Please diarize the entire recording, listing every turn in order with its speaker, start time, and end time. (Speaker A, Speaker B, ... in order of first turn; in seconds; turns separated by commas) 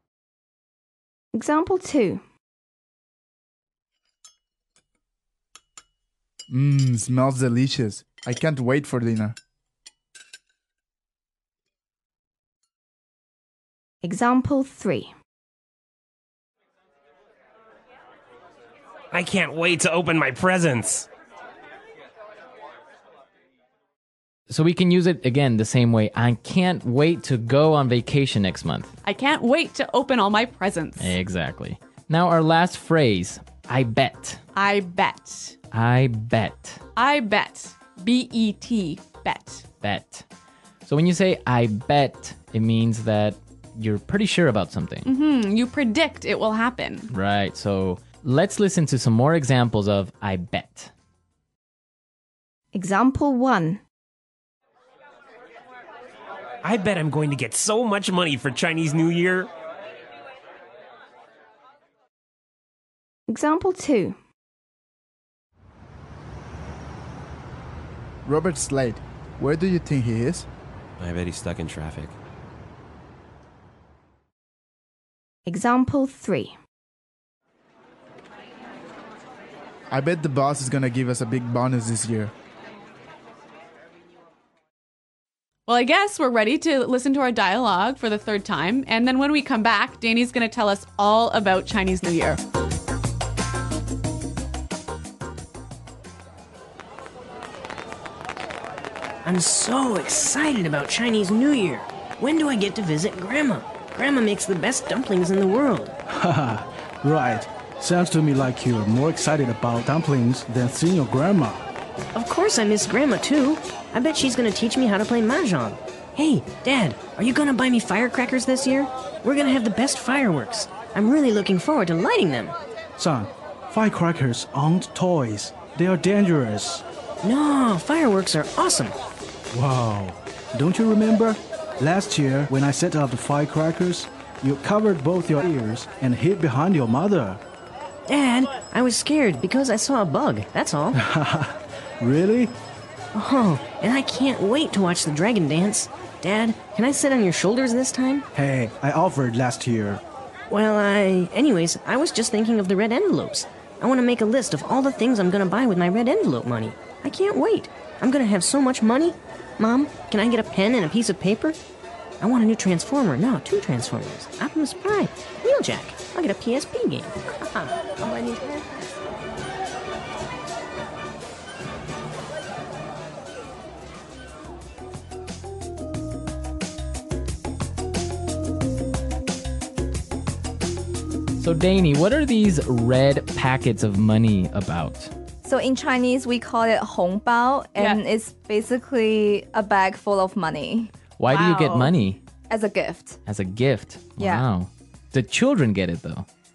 Speaker A: 1.4-2.2, Speaker B: 6.5-9.3, Speaker A: 14.1-15.1, Speaker C: 19.1-21.1, Speaker D: 24.5-28.9, Speaker E: 29.0-31.2, Speaker D: 31.0-34.4, Speaker E: 34.5-35.6, Speaker D: 35.7-36.8, Speaker E: 37.0-39.6, Speaker D: 39.8-40.3, Speaker D: 40.9-45.1, Speaker E: 45.0-47.1, Speaker D: 47.1-50.9, Speaker A: 52.8-53.8, Speaker C: 56.6-59.5, Speaker A: 63.4-64.0, Speaker B: 68.3-70.5, Speaker C: 71.0-72.2, Speaker A: 75.5-76.4, Speaker B: 79.9-82.3, Speaker E: 85.7-92.4, Speaker F: 99.2-106.0, Speaker G: 106.1-111.7, Speaker F: 112.1-122.6, Speaker G: 123.0-126.8, Speaker F: 127.2-129.0, Speaker G: 129.5-137.4, Speaker F: 138.1-141.0, Speaker G: 140.9-142.6, Speaker F: 143.1-148.2, Speaker G: 148.3-150.0, Speaker F: 150.5-161.6, Speaker F: 162.2-168.7, Speaker D: 181.4-185.1, Speaker H: 185.4-190.9, Speaker D: 191.2-192.2, Speaker E: 191.3-191.9, Speaker H: 192.5-193.2, Speaker D: 193.3-196.3, Speaker H: 194.2-194.5